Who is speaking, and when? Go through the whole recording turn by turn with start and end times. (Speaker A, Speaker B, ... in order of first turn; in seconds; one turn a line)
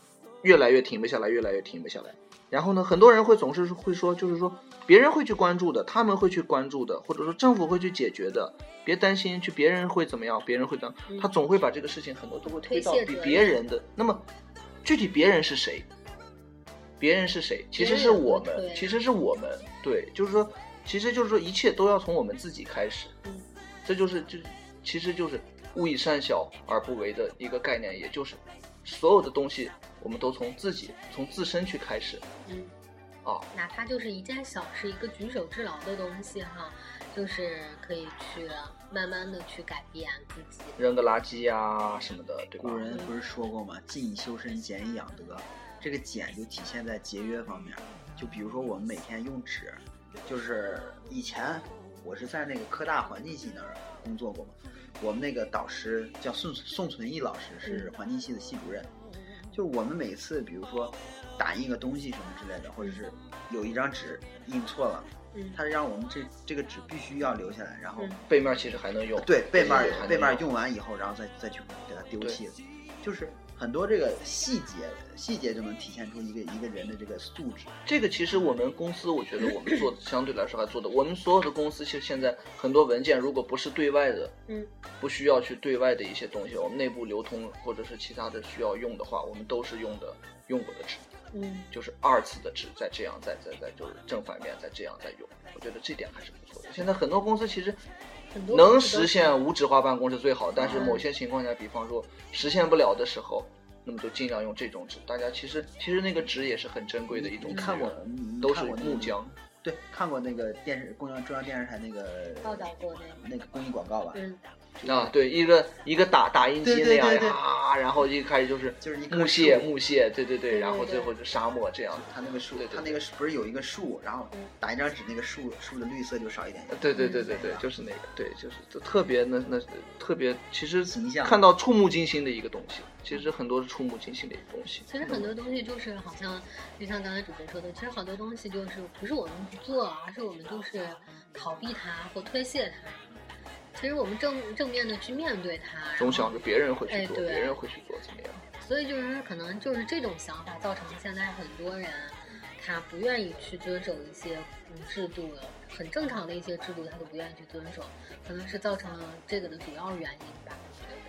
Speaker A: 0.4-14.2
Speaker B: 12.6-13.6
Speaker A: 14.8-15.9
Speaker A: 17.0-23.1
Speaker B: 17.8-19.0
Speaker A: 23.9-32.2
Speaker B: 32.5-32.7
Speaker B: 33.5-40.8
Speaker A: 40.8-42.9
Speaker C: 42.6-58.9
Speaker C: 59.5-68.2
Speaker B: 65.3-65.6
Speaker A: 68.3-70.5
Speaker C: 69.2-77.8
Speaker B: 69.6-70.0
Speaker A: 77.9-84.3
Speaker A: 85.0-91.0
Speaker B: 91.3-91.7
Speaker A: 91.7-97.8
Speaker B: 98.3-99.4
Speaker A: 98.5-109.4
Speaker C: 100.6-101.1
Speaker B: 100.7-101.0
Speaker C: 107.1-114.2
Speaker B: 112.4-113.2
Speaker B: 114.1-114.4
Speaker C: 114.8-115.1
Speaker A: 114.8-123.0
Speaker C: 116.6-117.4
Speaker C: 118.8-119.7
Speaker B: 120.5-121.1
Speaker C: 121.9-127.6
Speaker A: 126.7-135.3
Speaker B: 127.0-127.3
Speaker C: 130.9-131.4
Speaker B: 134.9-143.1
Speaker B: 143.8-146.3
Speaker A: 146.0-148.4
Speaker B: 146.9-147.6
Speaker B: 148.6-161.0